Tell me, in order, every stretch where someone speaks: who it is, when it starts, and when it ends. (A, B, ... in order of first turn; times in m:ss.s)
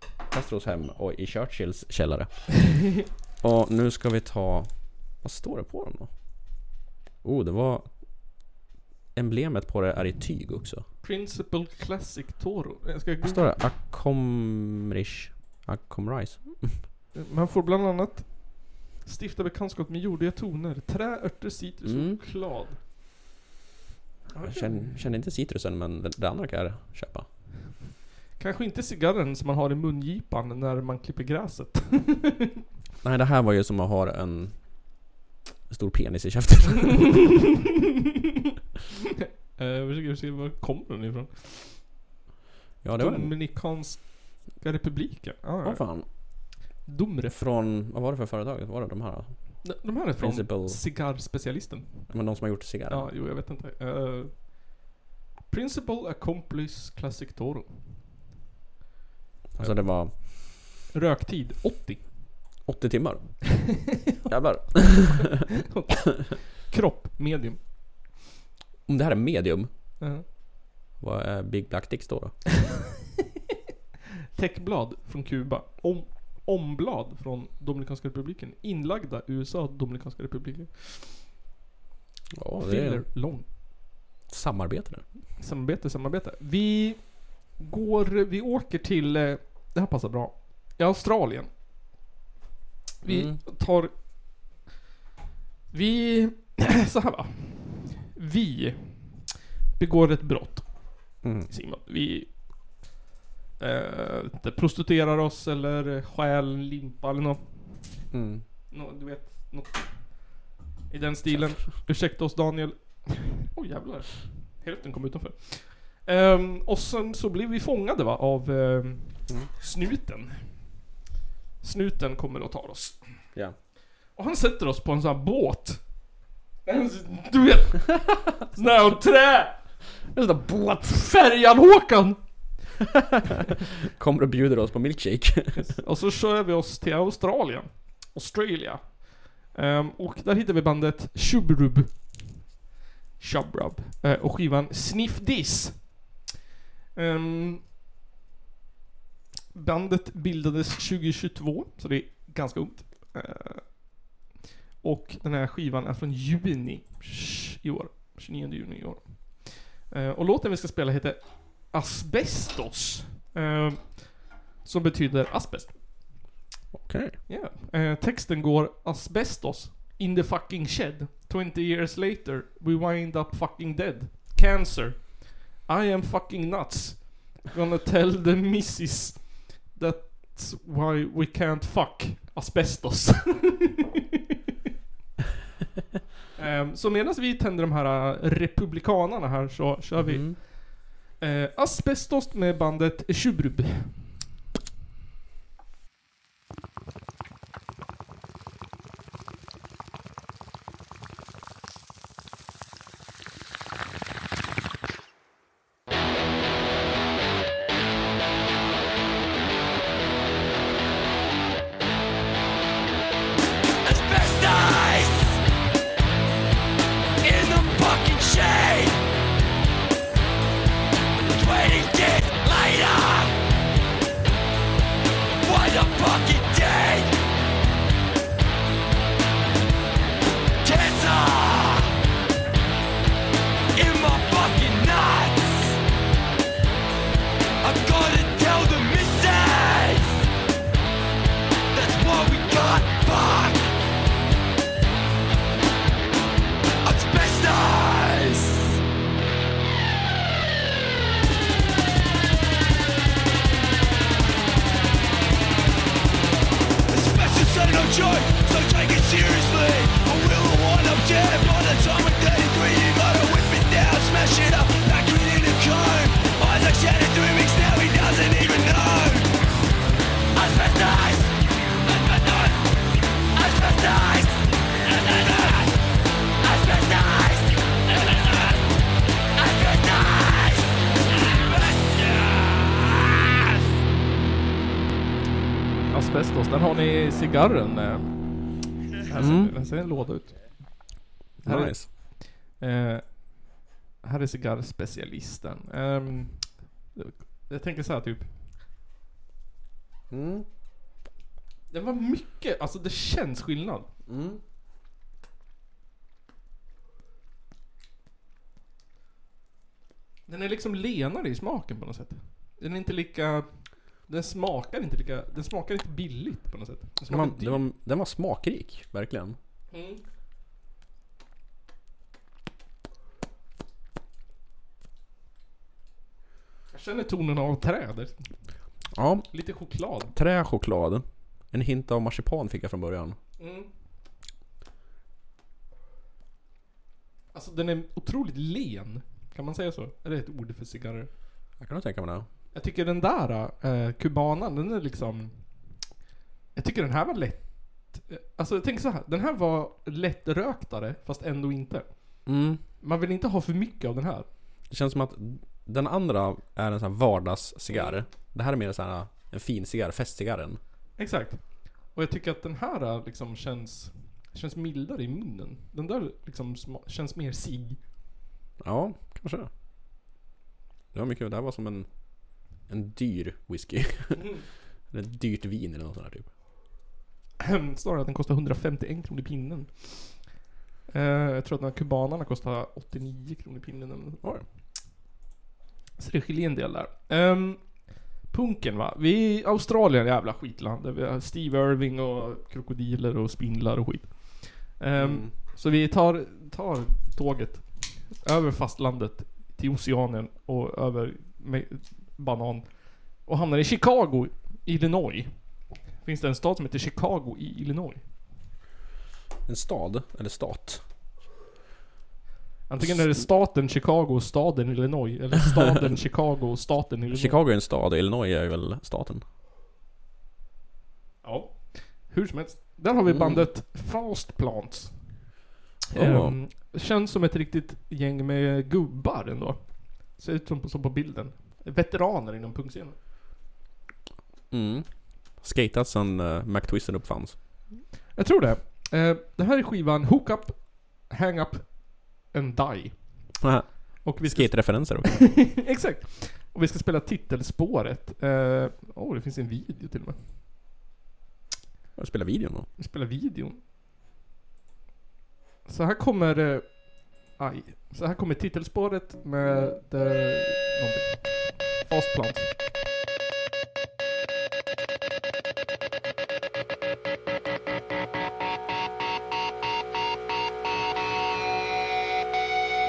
0:00.2-0:02.5 A
0:03.4-0:06.1 A
0:07.2-0:08.0 A
0:09.1-0:10.8 A
0:11.0-0:13.4 B
0:13.2-0:16.8 A
0:17.1-0:22.8 B
0:21.8-0:22.2 A
0:24.3-0:27.3 A
0:24.4-0:24.9 B
0:28.4-0:32.5 B
0:33.0-0:35.0 A
0:35.7-0:37.1 A
0:39.6-0:41.9 B
0:42.8-0:43.3 A
0:43.0-0:47.4 B
0:45.6-0:46.1 A
0:47.3-0:50.8 A
0:49.6-0:52.1 B
0:52.1-0:53.1 A
0:52.9-0:54.9 B
0:55.5-0:58.0 B
0:59.5-1:00.2 A
0:59.6-1:02.4 B
1:02.6-1:05.4 A
1:04.1-1:05.1 B
1:05.7-1:07.6 B
1:08.9-1:09.7 A
1:10.0-1:10.2 B
1:11.0-1:12.4 A
1:14.3-1:21.2 B
1:22.4-1:23.5 A
1:22.6-1:23.5 B
1:24.3-1:25.0 A
1:25.4-1:31.5 B
1:33.0-1:34.5 B
1:33.0-1:33.4 A
1:35.7-1:42.3 B
1:41.2-1:41.5 A
1:43.6-1:48.0 B
1:48.1-1:48.4 A
1:48.7-2:00.8 B
2:01.6-2:03.3 B
2:04.1-2:06.1 B
2:06.6-2:10.0 B
2:10.1-2:10.9 A
2:10.8-2:12.7 B
2:14.0-2:15.6 A
2:15.5-2:22.3 B
2:23.2-2:26.1 B
2:26.9-2:27.6 B
2:29.5-2:34.1 B
2:34.8-2:46.3 B
2:46.7-2:47.2 A
2:47.3-3:04.0 B
3:06.4-3:14.0 B
3:09.9-3:10.4 A
3:33.8-3:35.4 C
3:37.2-3:39.0 C
3:41.3-3:43.4 C
3:45.4-3:47.1 C
3:50.6-3:51.9 C
3:53.7-3:55.8 C
3:57.6-4:00.3 C
4:01.7-4:03.7 C
4:06.8-4:08.8 C
4:16.9-4:29.3 C
4:30.3-4:32.7 C
4:33.3-4:35.8 C
4:36.4-4:38.6 C
4:39.4-4:40.6 C
4:41.2-4:43.1 C
4:45.9-4:58.3 B
4:49.2-4:49.5 A
4:51.4-4:51.9 A
5:00.1-5:00.4 A
5:01.7-5:03.9 B
5:04.1-5:04.4 A
5:10.3-5:17.6 B
5:17.1-5:19.4 A
5:19.7-5:20.0 B
5:26.7-5:30.1 B
5:28.9-5:29.3 A
5:30.1-5:33.2 A
5:33.4-5:33.7 B
5:37.3-5:41.1 B
5:41.6-5:42.3 A
5:42.5-5:45.7 B
5:46.5-5:54.3 B
5:52.2-5:52.6 A
5:54.7-6:00.6 A
5:57.7-5:58.0 B
6:01.0-6:07.8 B
6:08.6-6:09.5 A
6:10.9-6:14.4 A
6:14.9-6:16.3 A
6:17.4-6:20.3 B
6:20.9-6:24.2 B
6:26.0-6:48.0 B
6:35.0-6:35.3 A
6:49.5-6:50.8 A
6:52.7-6:57.4 B
6:52.8-6:53.0 A
6:57.1-6:59.2 A
7:01.2-7:05.4 B
7:03.1-7:03.5 A
7:05.9-7:13.0 B
7:05.9-7:06.4 A
7:14.5-7:17.4 A
7:18.1-7:23.4 B
7:23.4-7:25.4 A
7:24.0-7:30.2 B
7:32.0-7:32.7 A
7:32.8-7:33.6 B
7:35.6-7:42.5 B